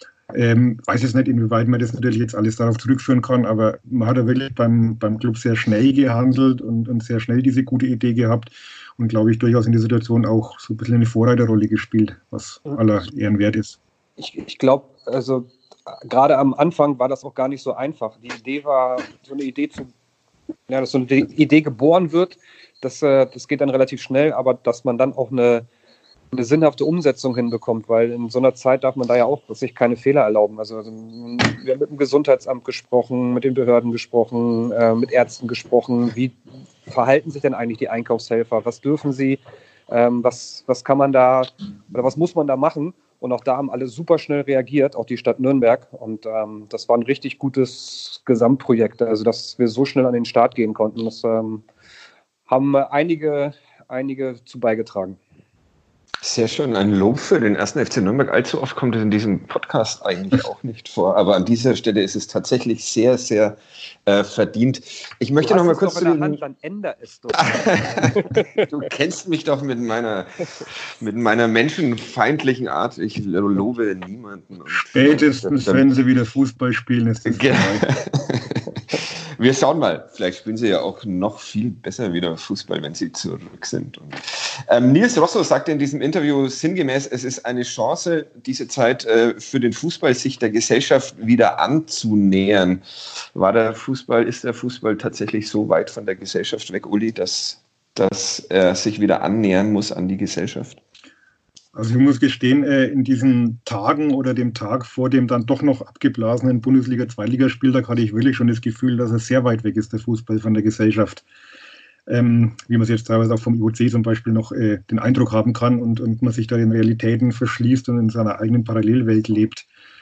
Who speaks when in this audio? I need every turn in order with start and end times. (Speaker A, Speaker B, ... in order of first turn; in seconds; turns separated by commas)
Speaker A: 0.3-13.8, Speaker B: 14.2-19.9, Speaker B: 20.7-25.7, Speaker B: 26.3-51.6, Speaker B: 52.5-55.2, Speaker C: 56.2-66.4, Speaker B: 65.4-68.7, Speaker C: 67.4-75.9, Speaker A: 74.9-77.9, Speaker C: 77.3-92.8, Speaker C: 93.3-100.8, Speaker A: 101.8-111.2, Speaker A: 112.1-119.7